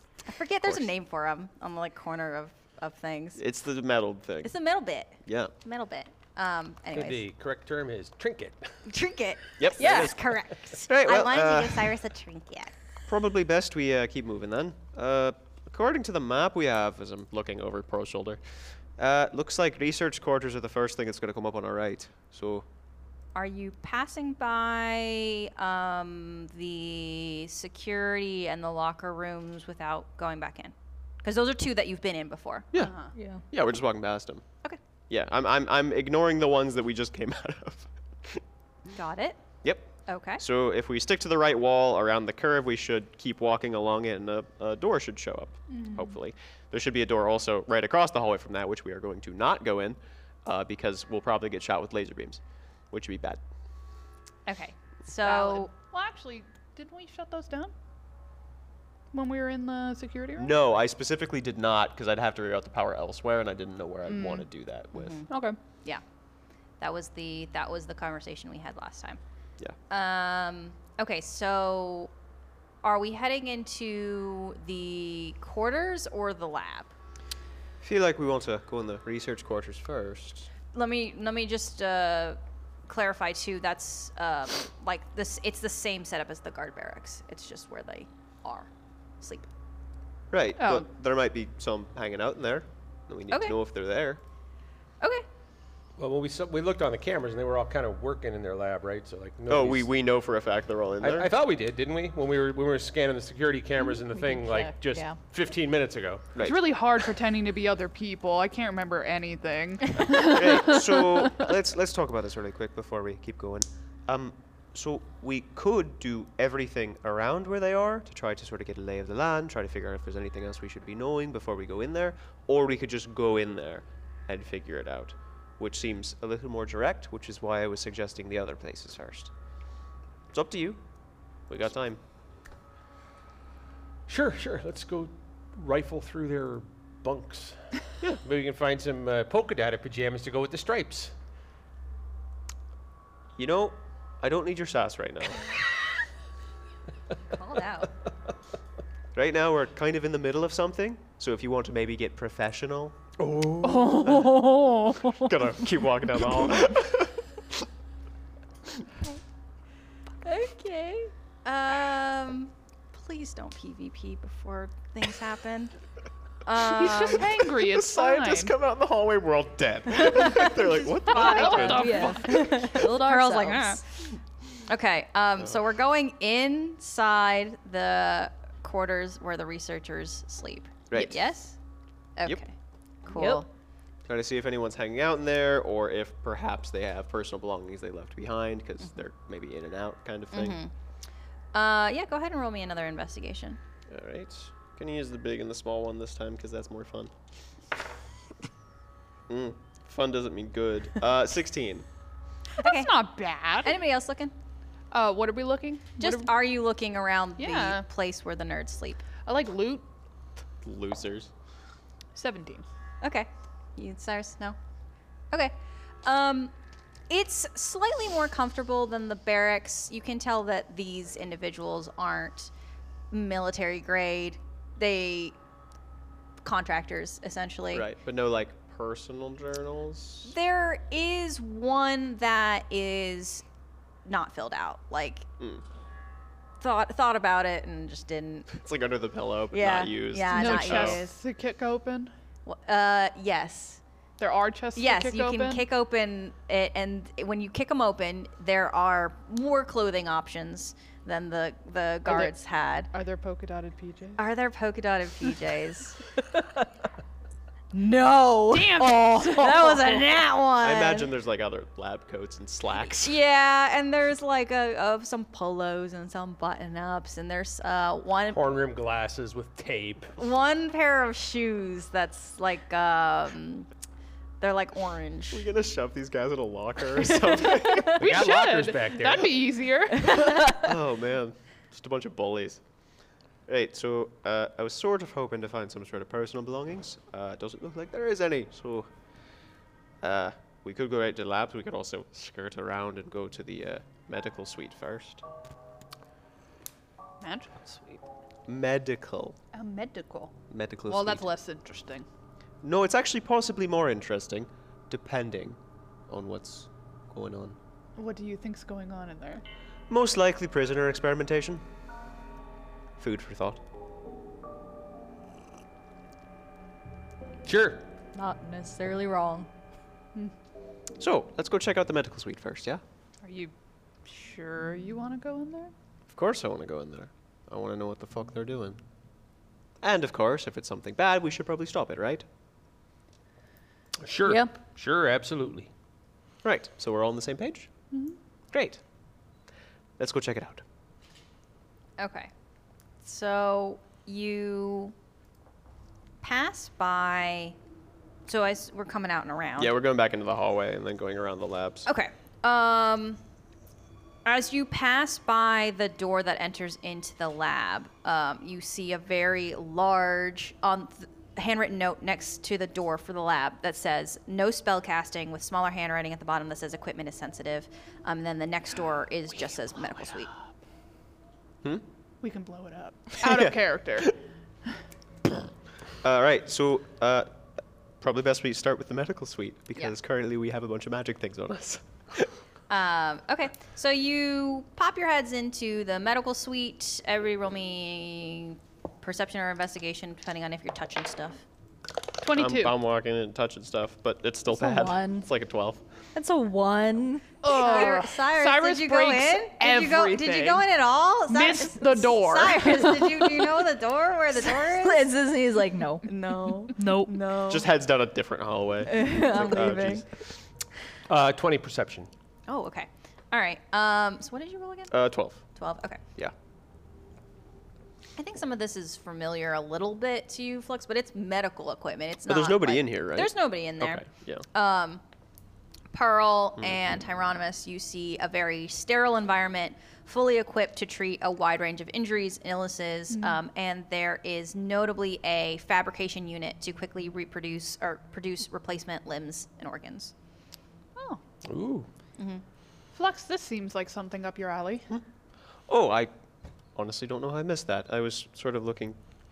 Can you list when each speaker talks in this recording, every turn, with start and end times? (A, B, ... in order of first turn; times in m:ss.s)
0:00.3-0:03.4 A
0:00.6-0:00.9 B
0:03.4-0:04.5 B
0:04.4-0:07.2 A
0:05.2-0:05.5 B
0:06.9-0:08.7 C
0:08.9-0:12.7 A
0:09.6-0:10.2 B
0:10.7-0:12.0 B
0:13.1-0:18.4 B
0:19.0-0:22.7 B
0:23.4-0:32.7 A
0:32.8-0:33.1 D
0:33.2-0:33.4 E
0:33.5-0:34.4 B
0:35.1-0:38.4 B
0:38.9-0:39.4 A
0:39.6-0:53.4 B
0:40.1-0:40.4 A
0:45.7-0:46.1 D
0:54.5-0:55.7 A
0:55.2-0:57.7 D
0:59.1-1:00.5 D
1:00.4-1:05.2 B
1:04.1-1:04.5 D
1:04.9-1:05.3 A
1:05.3-1:05.6 D
1:06.8-1:09.2 A
1:09.9-1:12.1 A
1:12.8-1:16.9 A
1:17.8-1:20.5 B
1:20.7-1:28.7 A
1:29.2-1:29.5 A
1:30.3-1:34.2 B
1:30.6-1:30.9 D
1:33.3-1:33.6 A
1:36.0-1:39.9 C
1:39.5-1:41.3 B
1:41.0-1:46.3 C
1:43.9-1:45.2 E
1:46.3-1:46.7 B
1:46.4-1:51.4 D
1:50.2-2:09.3 B
2:10.3-2:10.8 B
2:11.5-2:12.0 B
2:14.1-2:17.6 C
2:18.2-2:21.1 C
2:23.4-2:25.4 B
2:27.3-2:27.9 A
2:29.2-2:34.5 B
2:33.2-2:33.7 C
2:33.6-2:35.4 D
2:35.1-2:37.6 B
2:40.2-2:45.7 A
2:46.4-2:47.3 A
2:46.6-2:48.5 D
2:47.5-2:52.1 B
2:51.1-3:01.6 A
2:51.1-2:53.1 D
2:51.5-2:53.7 E
3:00.9-3:01.2 B
3:02.2-3:02.5 A
3:03.0-3:03.5 A
3:03.1-3:03.5 E
3:04.0-3:10.6 B
3:10.3-3:10.7 A
3:11.5-3:13.6 A
3:13.9-3:17.1 B
3:19.3-3:21.9 B
3:22.6-3:22.9 A
3:22.6-3:23.8 D
3:23.6-3:24.3 A
3:24.9-3:26.3 D
3:26.0-3:29.0 A
3:27.4-3:27.8 D
3:29.2-3:29.8 D
3:30.6-3:31.3 B
3:32.1-3:32.6 D
3:33.0-3:34.6 A
3:36.0-3:36.5 A
3:37.1-3:42.5 A
3:43.1-3:45.4 A
3:46.4-3:47.9 A
3:47.7-3:50.3 B
3:50.2-3:53.4 A
3:54.0-3:55.3 A
3:56.6-3:58.5 A
3:58.5-4:01.0 B
3:59.5-4:01.1 A
4:00.3-4:02.1 D
4:02.4-4:03.8 A
4:04.2-4:05.6 D
4:04.8-4:12.9 A
4:12.1-4:12.3 D
4:12.9-4:14.2 D
4:14.2-4:16.0 A
4:17.7-4:21.1 A
4:18.5-4:20.2 D
4:20.6-4:23.2 B
4:22.8-4:28.5 A
4:28.3-4:30.1 C
4:30.2-4:33.7 A
4:34.4-4:35.5 A
4:35.3-4:38.0 B
4:37.3-4:38.0 A
4:38.0-4:40.3 D
4:38.0-4:39.5 C
4:40.3-4:42.6 B
4:43.5-4:48.9 B
4:50.0-4:55.2 B
4:57.2-4:58.0 D
4:58.5-4:59.4 B
4:59.5-5:00.4 D
5:00.5-5:01.3 B
5:00.9-5:02.1 D
5:02.6-5:05.6 B
5:06.1-5:07.6 B
5:08.0-5:09.4 D
5:09.9-5:11.6 B
5:13.0-5:13.6 B
5:17.4-5:17.9 C
5:18.1-5:19.5 E
5:21.0-5:22.8 B
5:23.2-5:23.5 D
5:24.0-5:25.7 D
5:26.1-5:28.8 B
5:29.8-5:32.2 B
5:34.0-5:35.7 C
5:34.2-5:34.5 E
5:36.4-5:37.7 B
5:38.5-5:38.8 B
5:40.0-5:40.6 B
5:42.0-5:42.3 A
5:43.0-5:44.9 A
5:46.2-5:47.6 A
5:48.3-5:49.8 A
5:49.6-5:51.9 B
5:51.9-5:53.2 A
5:54.2-6:10.3 A
6:12.2-6:14.2 D
6:13.2-6:14.0 B
6:16.0-6:17.3 B
6:18.0-6:22.3 B
6:22.7-6:31.4 A
6:32.2-6:32.7 D
6:32.3-6:35.8 B
6:34.5-6:35.3 E
6:36.2-6:37.9 E
6:37.4-6:40.6 D
6:37.4-6:45.2 A
6:41.3-6:43.2 D
6:44.5-6:47.2 E
6:46.0-6:47.6 A
6:47.5-6:50.0 B
6:48.9-6:50.0 E
6:49.6-6:50.0 A
6:51.1-6:52.1 C
6:52.5-6:55.0 A
6:54.9-6:55.4 B
6:55.6-6:56.0 A
6:58.2-7:05.0 A
7:02.3-7:04.4 B
7:05.9-7:20.1 A
7:13.1-7:13.4 D
7:21.0-7:21.2 D
7:21.4-7:21.9 C
7:22.2-7:22.4 A
7:22.9-7:24.9 D
7:25.7-7:26.1 B
7:26.8-7:29.0 B